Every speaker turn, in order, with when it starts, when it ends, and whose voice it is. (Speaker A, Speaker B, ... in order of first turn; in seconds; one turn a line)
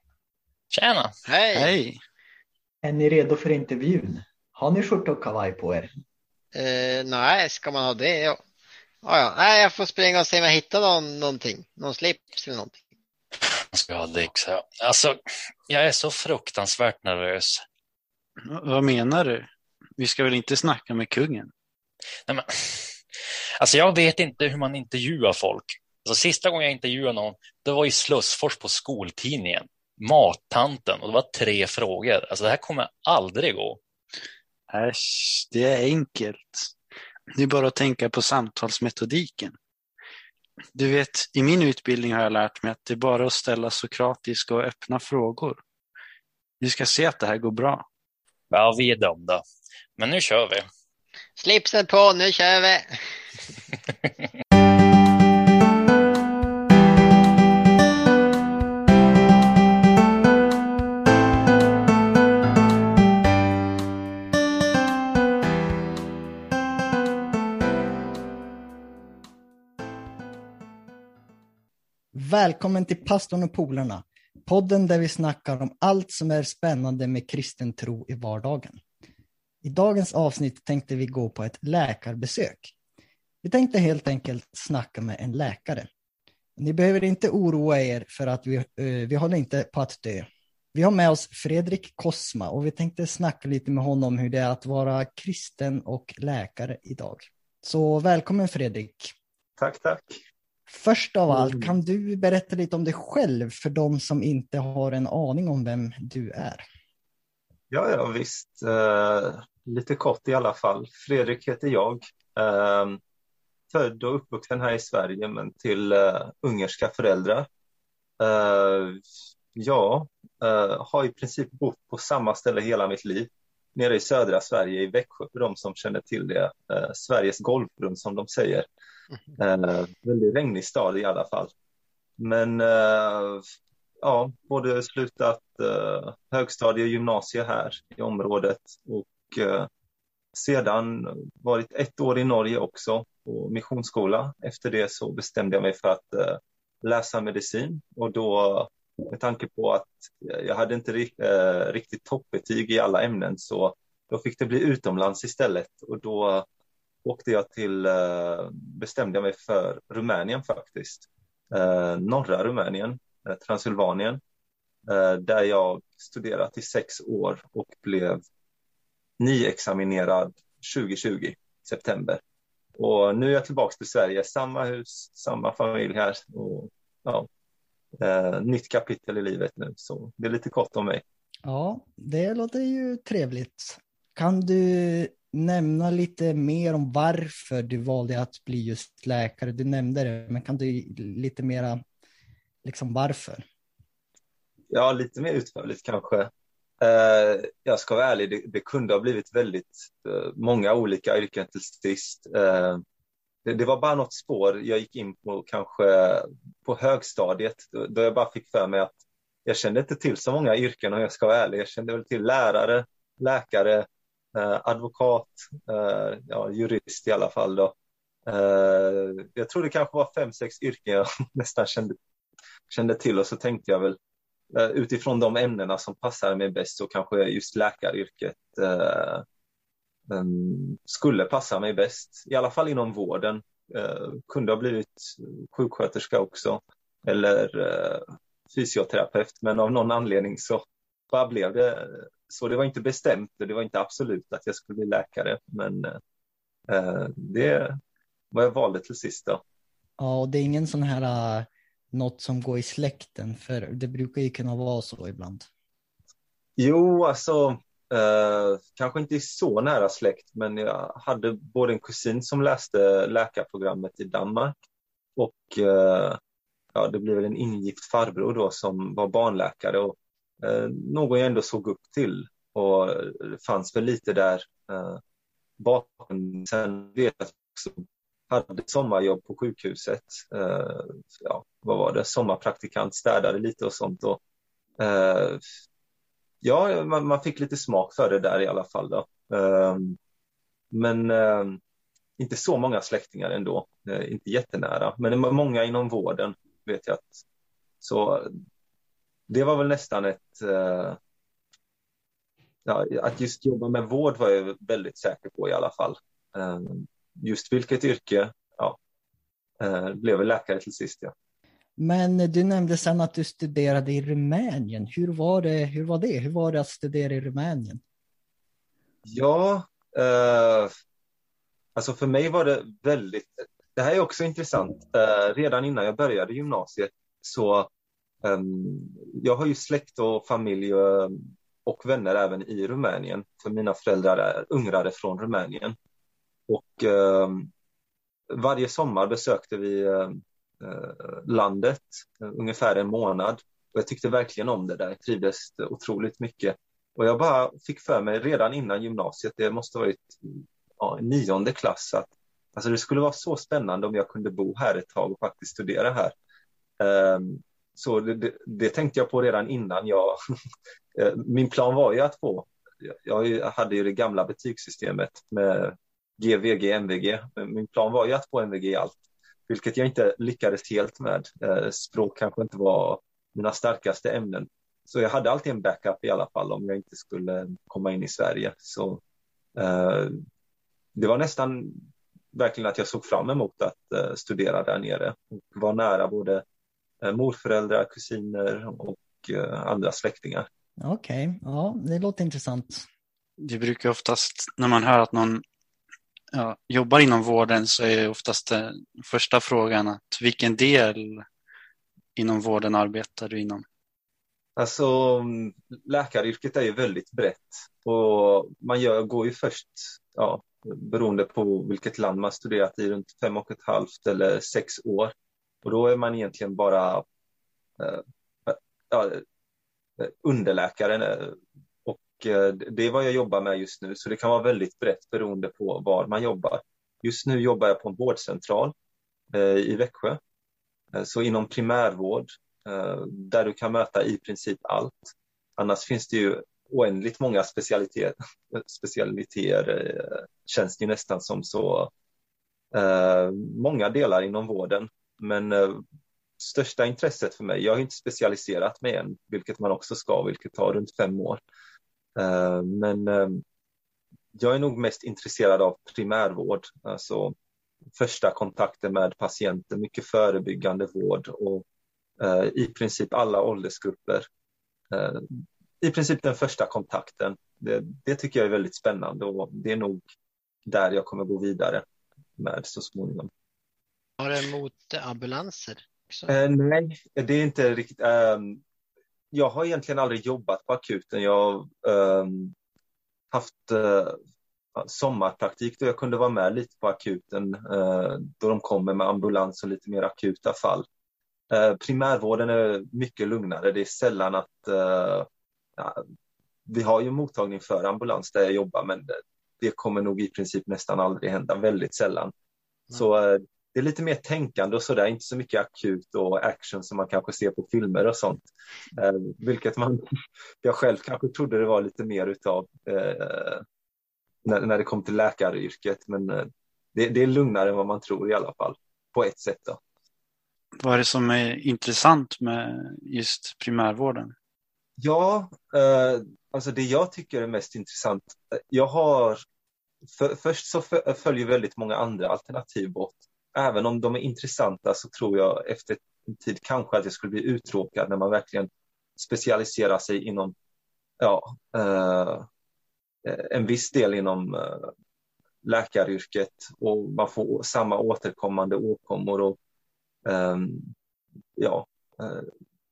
Speaker A: 0.7-1.1
Speaker B: 1.3-1.7
Speaker C: 1.5-2.0
Speaker D: 2.8-5.9
Speaker B: 6.5-8.4
Speaker B: 9.0-12.8
Speaker A: 13.7-17.6
Speaker C: 18.4-21.5
Speaker A: 22.2-22.9
Speaker A: 23.6-33.8
Speaker C: 34.7-36.7
Speaker C: 37.3-39.5
Speaker C: 40.7-45.6
Speaker C: 46.6-47.8
Speaker A: 48.5-49.4
Speaker A: 50.0-50.7
Speaker B: 51.4-53.0
Speaker E: 72.1-78.8
Speaker E: 79.6-82.7
Speaker E: 83.4-85.9
Speaker E: 86.6-99.1
Speaker F: 99.6-100.2
Speaker E: 100.7-106.6
Speaker F: 101.3-101.8
Speaker F: 107.7-113.0
Speaker F: 113.7-117.5
Speaker F: 118.2-119.0
Speaker F: 119.5-128.7
Speaker F: 129.4-131.5
Speaker F: 132.2-133.4
Speaker F: 134.0-139.7
Speaker F: 140.3-156.4
Speaker F: 157.0-164.2
Speaker F: 164.9-168.2
Speaker F: 169.2-172.2
Speaker F: 172.8-177.3
Speaker F: 178.0-181.0
Speaker E: 181.4-191.8
Speaker E: 192.6-193.4
Speaker F: 194.7-196.3
Speaker F: 196.8-202.8
Speaker F: 203.4-217.7
Speaker F: 218.2-222.0
Speaker F: 222.7-224.0
Speaker F: 224.5-229.2
Speaker F: 230.1-246.0
Speaker F: 246.7-247.8
Speaker F: 248.3-249.4
Speaker E: 250.0-255.5
Speaker F: 256.6-264.5
Speaker F: 265.1-266.2
Speaker F: 266.7-275.0
Speaker F: 275.6-284.2
Speaker F: 284.8-285.4
Speaker F: 286.4-290.0
Speaker F: 290.7-291.6
Speaker F: 292.2-297.2
Speaker F: 297.8-298.3
Speaker F: 299.3-301.0
Speaker F: 302.6-308.8
Speaker F: 309.6-311.1
Speaker E: 311.8-317.8
Speaker F: 319.0-320.7
Speaker F: 321.8-327.7
Speaker F: 328.2-335.8
Speaker F: 336.5-337.5
Speaker F: 338.3-356.1
Speaker F: 356.8-360.2
Speaker F: 360.9-369.0
Speaker F: 369.5-379.0
Speaker F: 379.6-380.2
Speaker F: 380.9-381.8
Speaker F: 382.3-386.4
Speaker F: 387.0-390.5
Speaker E: 390.8-392.9
Speaker C: 393.4-395.4
Speaker C: 396.3-401.2
Speaker C: 402.2-403.6
Speaker F: 404.6-417.0
Speaker F: 417.8-419.2
Speaker F: 420.0-428.7
Speaker F: 429.3-430.2
Speaker F: 430.9-441.9
Speaker F: 442.7-445.8
Speaker F: 446.4-451.4
Speaker F: 452.2-453.4
Speaker F: 454.3-457.3
Speaker F: 457.9-461.6
Speaker F: 462.2-464.3
Speaker F: 464.9-470.0
Speaker F: 470.6-471.8
Speaker F: 472.4-473.3
Speaker B: 474.2-476.3
Speaker F: 476.3-478.6
Speaker F: 479.3-482.5
Speaker F: 483.3-484.2
Speaker F: 484.8-490.9
Speaker F: 491.5-496.0
Speaker F: 496.6-502.3
Speaker F: 502.9-513.6
Speaker F: 514.4-519.8
Speaker C: 520.8-524.3
Speaker F: 525.0-529.4
Speaker F: 530.1-540.5
Speaker F: 541.2-542.5
Speaker F: 543.2-544.9
Speaker F: 545.6-549.6
Speaker F: 550.2-550.9
Speaker F: 551.6-552.5